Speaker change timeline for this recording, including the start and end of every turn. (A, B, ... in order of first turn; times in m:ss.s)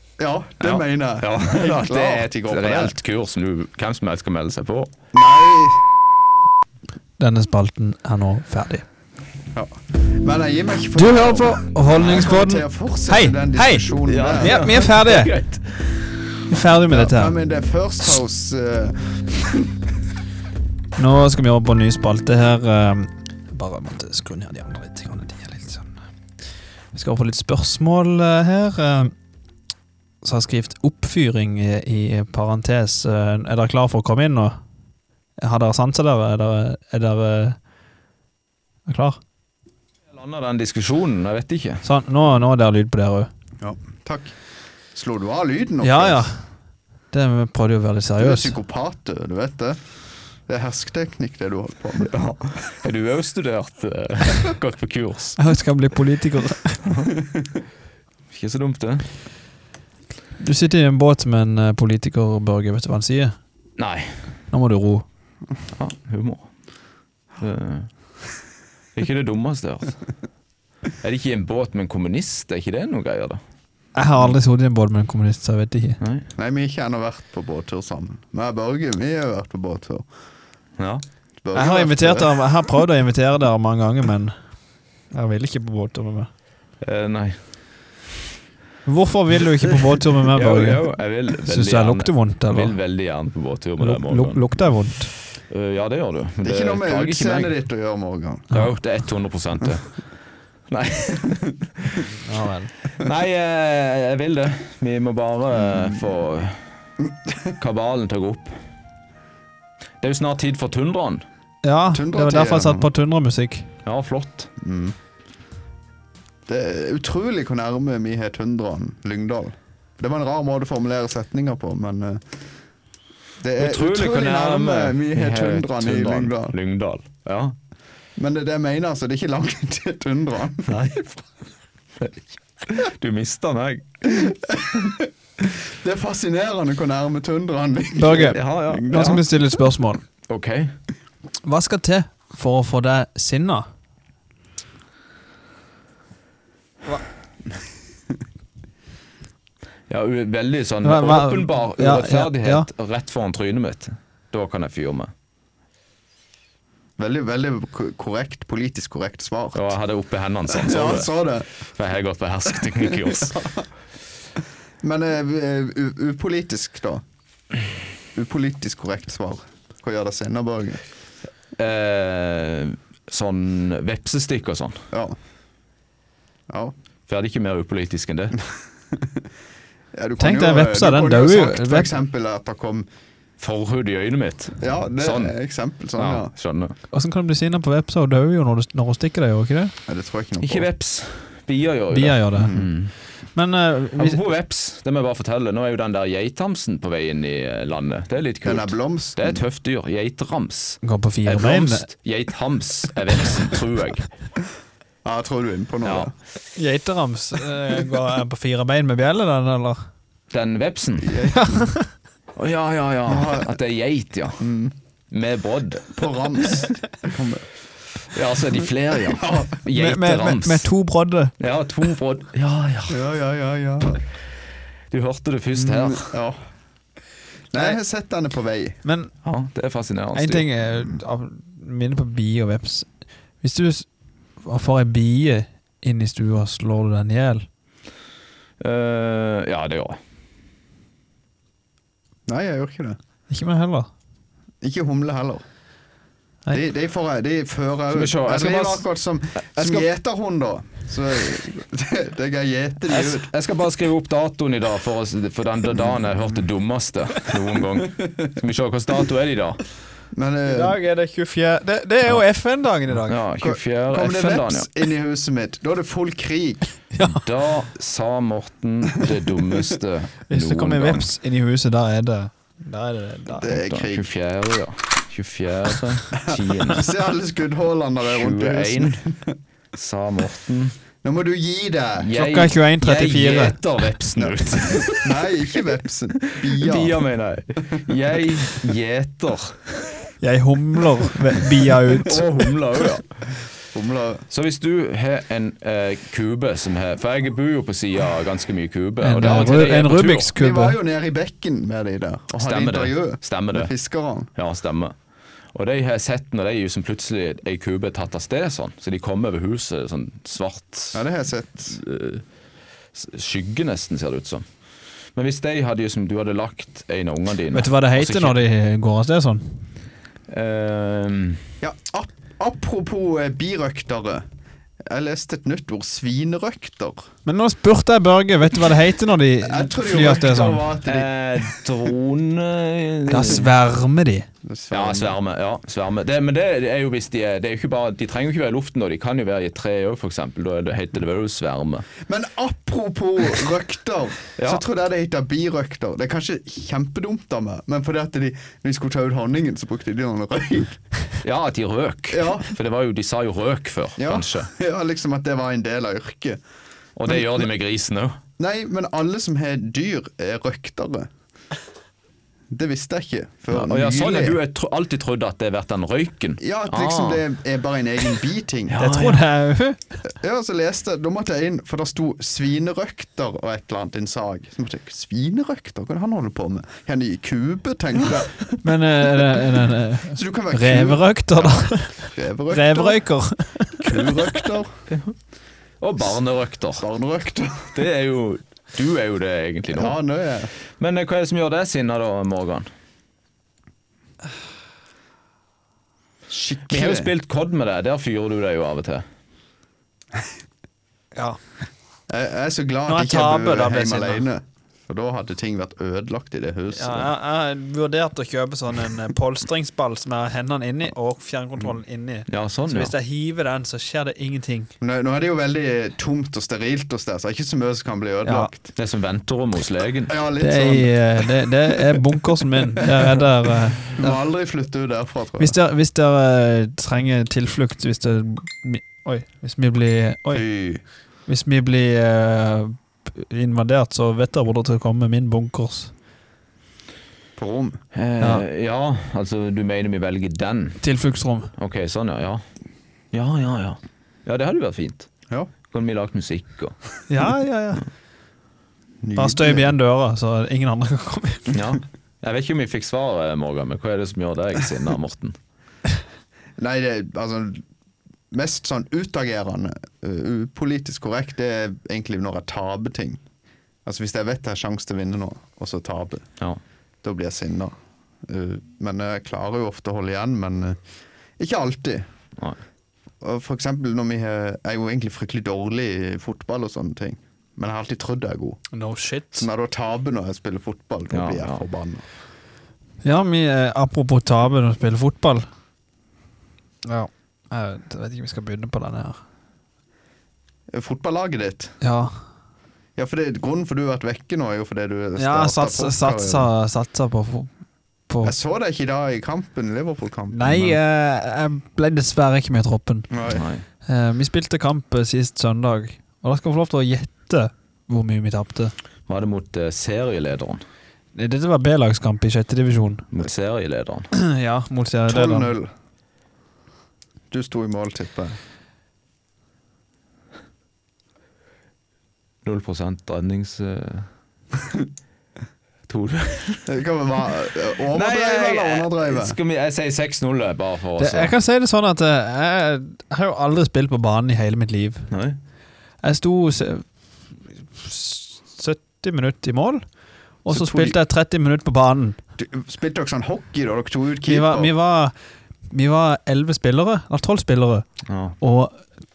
0:00.2-0:02.9 A
0:00.6-0:04.9 B
0:05.1-0:06.1 A
0:07.2-0:08.8 C
0:09.5-0:14.7 A
0:11.0-0:15.3 C
0:14.0-0:16.1 B
0:16.5-0:17.3 C
0:16.9-0:19.7 A
0:21.0-0:26.0 C
0:26.9-0:29.1 C
0:30.2-0:34.6 C
0:35.4-0:37.6 C
0:38.9-0:39.2 C
0:40.1-0:41.8 B
0:41.8-0:43.3 C
0:43.6-0:44.3 A
0:44.9-0:46.3 A
0:45.8-0:46.4 C
0:47.1-0:48.5 C
0:48.2-0:49.8 A
0:50.5-0:52.3 A
0:52.1-0:55.4 B
0:55.4-0:56.8 C
0:56.8-0:57.1 B
0:58.3-0:59.1 B
1:00.4-1:03.3 C
1:03.8-1:04.1 B
1:04.5-1:05.0 C
1:05.7-1:06.5 B
1:07.4-1:07.9 B
1:08.9-1:10.0 B
1:11.0-1:13.4 B
1:13.9-1:16.0 C
1:16.0-1:16.2 B
1:16.4-1:20.1 A
1:20.8-1:21.0 B
1:21.4-1:22.4 A
1:21.5-1:24.4 C
1:25.1-1:26.3 C
1:26.8-1:27.4 B
1:28.8-1:30.8 C
1:30.3-1:34.5 B
1:31.4-1:32.7 C
1:33.8-1:35.1 C
1:35.5-1:37.5 B
1:36.4-1:38.5 A
1:38.5-1:39.9 B
1:40.7-1:42.0 B
1:42.2-1:42.7 C
1:43.0-1:46.6 B
1:47.6-1:48.5 B
1:50.0-1:51.2 B
1:51.6-1:53.7 C
1:51.9-1:52.9 A
1:53.8-1:54.5 B
1:54.6-1:55.0 A
1:56.5-2:02.2 A
2:03.4-2:06.5 A
2:03.6-2:07.5 B
2:08.2-2:10.8 A
2:10.7-2:11.2 B
2:12.0-2:13.9 B
2:14.0-2:19.2 A
2:17.9-2:20.0 C
2:18.2-2:19.2 B
2:20.3-2:20.7 B
2:21.4-2:23.7 C
2:29.9-2:35.1 B
2:30.8-2:32.7 C
2:37.0-2:39.7 A
2:39.5-2:41.1 B
2:40.5-2:41.5 A
2:41.7-2:43.4 B
2:43.1-2:43.6 A
2:44.8-2:47.0 A
2:48.1-2:50.8 A
2:51.6-2:54.8 B
2:54.9-2:55.2 A
2:56.5-2:56.7 A
2:57.1-2:58.4 B
2:58.9-2:59.2 A
2:59.9-3:02.9 A
3:00.2-3:01.9 C
3:03.4-3:05.3 B
3:04.6-3:06.3 A
3:06.0-3:06.7 B
3:06.9-3:09.7 C
3:09.9-3:10.7 A
3:10.4-3:12.9 B
3:11.9-3:12.5 C
3:12.4-3:12.7 A
3:13.3-3:14.2 C
3:14.0-3:24.1 B
3:18.4-3:19.4 A
3:20.8-3:21.8 C
3:25.0-3:26.1 A
3:25.8-3:26.1 B
3:26.6-3:29.8 C
3:30.3-3:31.2 B
3:31.0-3:31.6 A
3:31.3-3:31.9 C
3:32.4-3:34.4 B
3:33.1-3:33.5 A
3:34.4-3:34.7 A
3:35.1-3:35.9 B
3:35.9-3:37.4 A
3:38.1-3:40.7 B
3:39.1-3:39.5 A
3:39.7-3:41.3 C
3:41.4-3:43.0 B
3:42.9-3:44.0 A
3:44.9-3:46.2 B
3:45.5-3:46.4 A
3:47.5-3:48.8 A
3:48.8-3:49.1 C
3:49.2-3:50.4 B
3:50.1-3:52.9 C
3:53.4-3:53.9 C
3:54.4-3:57.5 C
3:58.6-4:00.0 B
4:02.3-4:03.0 A
4:03.3-4:03.9 C
4:04.6-4:05.4 A
4:06.5-4:13.3 A
4:07.9-4:08.8 B
4:09.5-4:09.9 B
4:12.9-4:19.6 B
4:20.1-4:20.7 A
4:20.5-4:23.2 C
4:23.0-4:24.7 B
4:23.4-4:26.7 A
4:26.9-4:27.2 C
4:27.0-4:31.1 B
4:30.3-4:33.5 C
4:33.4-4:34.1 A
4:33.4-4:36.9 B
4:36.2-4:39.4 A
4:38.1-4:39.0 B
4:39.7-4:40.7 B
4:41.0-4:42.1 A
4:42.0-4:45.2 B
4:42.1-4:43.6 C
4:44.2-4:47.0 A
4:46.2-4:49.8 B
4:50.2-4:52.2 C
4:52.0-4:53.1 B
4:53.7-4:54.2 A
4:54.3-5:00.3 B
4:59.0-5:00.8 C
4:59.2-4:59.7 A
5:00.4-5:04.3 A
5:02.3-5:03.7 B
5:04.3-5:04.9 B
5:05.5-5:11.0 B
5:10.9-5:11.8 A
5:11.7-5:12.2 B
5:12.9-5:14.4 B
5:15.1-5:18.4 B
5:17.5-5:19.6 C
5:20.3-5:21.4 B
5:21.6-5:24.2 A
5:24.8-5:27.0 A
5:27.2-5:30.6 C
5:29.4-5:31.6 A
5:30.8-5:33.5 B
5:33.1-5:34.3 C
5:34.4-5:35.2 A
5:34.7-5:41.9 B
5:42.0-5:50.8 A
5:44.4-5:44.6 B
5:51.2-5:54.5 B
5:52.1-5:52.5 A
5:54.0-5:56.4 A
5:57.0-5:58.1 B
5:57.1-5:57.5 A
5:58.4-6:01.1 A
6:02.5-6:04.4 A
6:03.5-6:07.2 B
6:06.4-6:08.8 A
6:08.7-6:09.2 B
6:08.8-6:09.8 C
6:10.1-6:18.4 A
6:18.6-6:23.8 C
6:20.1-6:23.0 A
6:23.8-6:24.7 A
6:24.9-6:25.1 B
6:25.8-6:26.8 B
6:26.8-6:27.8 A
6:27.7-6:30.0 B
6:29.7-6:30.5 A
6:30.8-6:32.7 B
6:36.3-6:37.1 A
6:36.7-6:39.0 B
6:42.1-6:47.1 A
6:42.9-6:44.2 C
6:46.7-6:54.7 C
6:52.3-6:52.9 B
6:54.8-6:58.6 A
6:58.2-6:58.5 C
6:58.7-7:00.1 B
7:00.1-7:01.3 A
7:00.4-7:04.2 C
7:04.0-7:05.5 A
7:05.4-7:10.4 C
7:10.3-7:10.8 A
7:11.2-7:15.9 C
7:17.4-7:17.8 A
7:17.9-7:20.8 B
7:18.2-7:18.4 C
7:20.8-7:21.5 C
7:21.6-7:22.4 B
7:23.1-7:25.1 B
7:25.7-7:26.8 B
7:27.1-7:27.8 C
7:29.0-7:29.7 A
7:29.2-7:31.6 C
7:31.5-7:35.3 B
7:36.6-7:37.6 A
7:38.3-7:43.2 A
7:43.8-7:46.3 A
7:47.0-7:47.7 A
7:48.2-7:50.8 A
7:51.4-7:52.1 A
7:53.2-7:58.6 A
7:58.7-7:59.5 C
7:59.3-8:02.0 A
8:01.1-8:01.6 B
8:03.0-8:05.5 C
8:06.8-8:09.2 C
8:10.7-8:11.7 A
8:11.8-8:12.1 C
8:13.0-8:16.5 A
8:15.2-8:17.5 C
8:18.1-8:18.3 C
8:18.2-8:20.6 A
8:20.3-8:23.1 C
8:23.1-8:23.4 A
8:23.3-8:23.6 B
8:23.8-8:28.7 C
8:29.1-8:30.6 B
8:31.1-8:33.0 C
8:33.1-8:34.1 B
8:34.1-8:35.5 C
8:35.1-8:35.7 A
8:37.3-8:38.4 A
8:42.4-8:44.1 B
8:45.9-8:46.7 B
8:46.7-8:49.4 A
8:47.9-8:51.3 B
8:51.0-8:55.1 C
8:55.1-8:55.4 B
8:56.0-8:56.9 C
8:57.7-8:59.9 C
9:00.4-9:02.2 C
9:00.5-9:01.0 A
9:02.4-9:04.7 A
9:04.2-9:05.1 C
9:05.7-9:07.8 C
9:08.1-9:08.4 B
9:08.4-9:08.9 C